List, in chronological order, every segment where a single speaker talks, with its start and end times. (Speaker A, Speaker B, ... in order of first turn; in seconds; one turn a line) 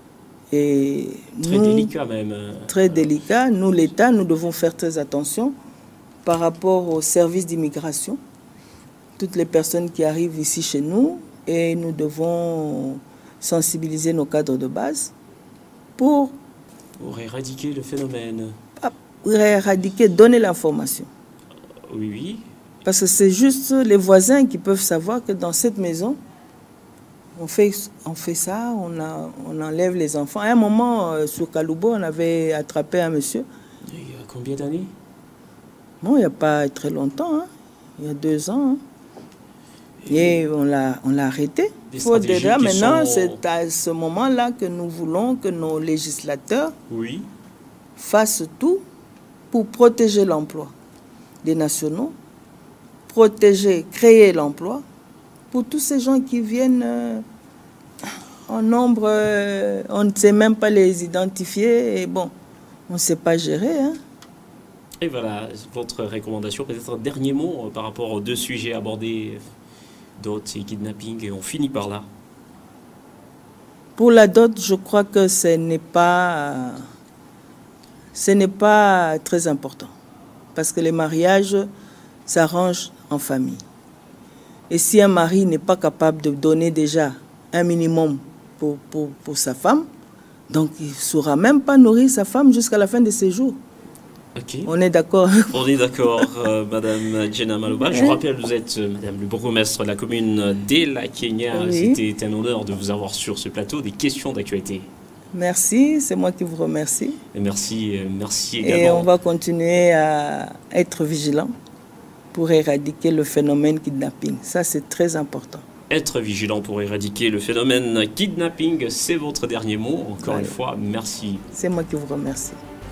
Speaker A: 0.5-1.9
Speaker B: 1.4-3.2
Speaker A: 2.7-5.5
Speaker A: 6.2-8.2
Speaker A: 9.2-15.1
Speaker A: 16.0-16.3
Speaker B: 17.0-18.6
Speaker A: 18.8-21.1
Speaker B: 21.9-22.5
Speaker A: 22.8-26.2
Speaker A: 27.4-33.5
Speaker B: 33.9-34.9
Speaker A: 36.0-38.8
Speaker B: 40.0-40.4
Speaker A: 40.1-46.7
Speaker B: 41.9-43.4
Speaker B: 46.9-47.3
Speaker A: 48.0-48.8
Speaker A: 49.5-50.7
Speaker A: 51.4-52.1
Speaker A: 53.1-54.8
Speaker A: 55.5-57.2
Speaker A: 58.5-62.3
Speaker A: 62.9-64.0
Speaker B: 65.0-69.4
Speaker B: 70.2-72.1
Speaker A: 74.0-76.8
Speaker A: 78.1-79.9
Speaker A: 80.5-81.7
Speaker A: 82.2-83.6
Speaker A: 84.7-89.9
Speaker A: 90.5-93.6
Speaker B: 94.3-94.7
Speaker A: 94.6-96.2
Speaker B: 95.5-104.9
Speaker A: 97.9-98.2
Speaker A: 101.5-102.0
Speaker A: 105.3-107.2
Speaker B: 107.3-109.1
Speaker A: 108.6-111.5
Speaker A: 112.3-115.6
Speaker B: 115.9-121.4
Speaker A: 120.2-120.5
Speaker A: 121.5-122.6